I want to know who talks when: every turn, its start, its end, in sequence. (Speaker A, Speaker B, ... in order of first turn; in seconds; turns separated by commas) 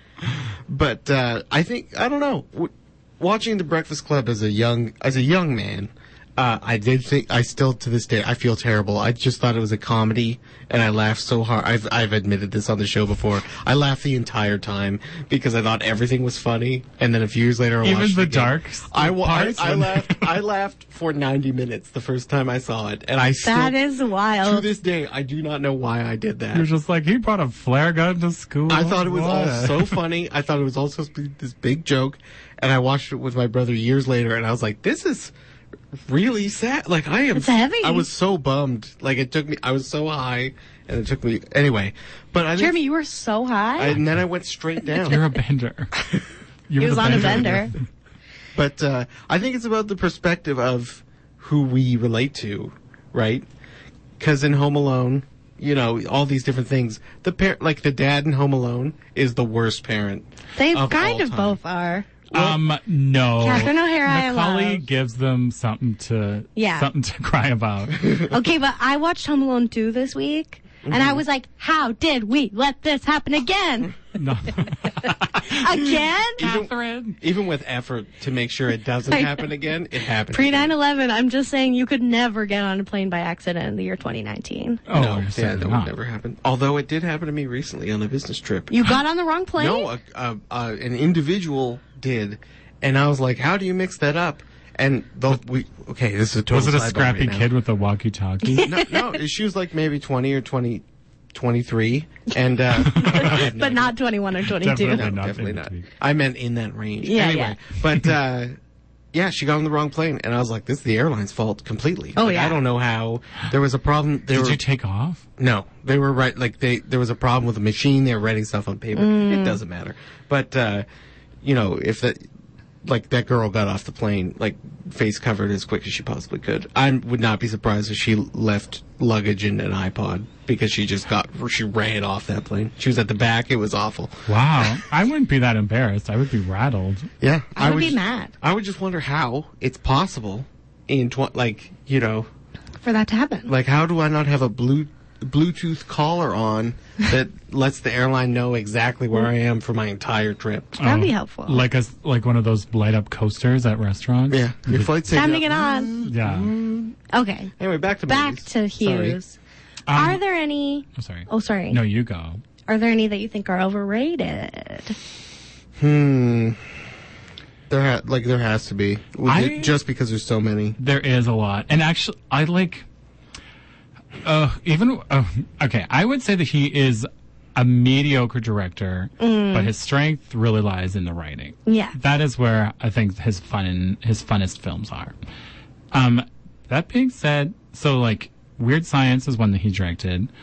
Speaker A: 0.7-23.8, Speaker B: 17.8-20.3, Speaker C: 23.4-24.6, Speaker A: 24.4-26.6, Speaker B: 26.5-29.9, Speaker A: 28.7-35.3, Speaker A: 35.9-42.8, Speaker C: 37.3-38.0, Speaker C: 42.6-44.0, Speaker A: 43.8-45.2, Speaker B: 45.0-46.0, Speaker B: 46.7-47.8, Speaker C: 46.8-47.7, Speaker A: 47.1-47.5, Speaker A: 48.5-53.5, Speaker A: 54.2-61.6, Speaker C: 60.5-62.1, Speaker A: 62.3-62.6, Speaker B: 62.3-68.2, Speaker C: 63.4-64.8, Speaker C: 66.5-66.9, Speaker C: 68.1-74.0, Speaker A: 70.8-71.2, Speaker B: 74.1-77.2, Speaker C: 75.0-76.4, Speaker A: 76.4-80.7, Speaker C: 79.1-79.4, Speaker C: 80.3-84.8, Speaker B: 84.9-85.9, Speaker A: 84.9-88.9, Speaker C: 88.7-89.9, Speaker A: 89.6-97.5, Speaker B: 96.5-98.7, Speaker C: 98.4-99.0, Speaker A: 98.6-103.9, Speaker B: 102.8-103.5, Speaker C: 102.8-105.1, Speaker B: 104.6-105.9, Speaker A: 104.9-108.5, Speaker C: 107.0-107.6, Speaker A: 109.1-114.6, Speaker C: 112.2-112.6, Speaker B: 114.3-115.2, Speaker A: 115.4-120.8, Speaker C: 118.9-119.6, Speaker A: 121.4-122.2, Speaker A: 122.8-134.7, Speaker B: 134.3-137.1, Speaker A: 137.2-142.3, Speaker C: 137.6-138.3, Speaker C: 142.8-143.5, Speaker A: 143.5-150.8, Speaker B: 150.8-155.0, Speaker C: 150.8-151.6, Speaker A: 154.3-157.0, Speaker C: 155.1-155.9, Speaker B: 156.0-156.5, Speaker C: 157.1-157.5, Speaker A: 157.6-159.2, Speaker C: 158.1-159.4, Speaker B: 159.9-160.2, Speaker C: 159.9-161.8, Speaker B: 160.9-162.4, Speaker C: 162.7-165.0, Speaker A: 165.8-166.6, Speaker A: 167.7-170.8, Speaker B: 169.2-169.8, Speaker B: 170.8-172.8, Speaker B: 174.2-185.1, Speaker C: 179.2-179.7, Speaker C: 181.7-181.9, Speaker B: 185.9-190.3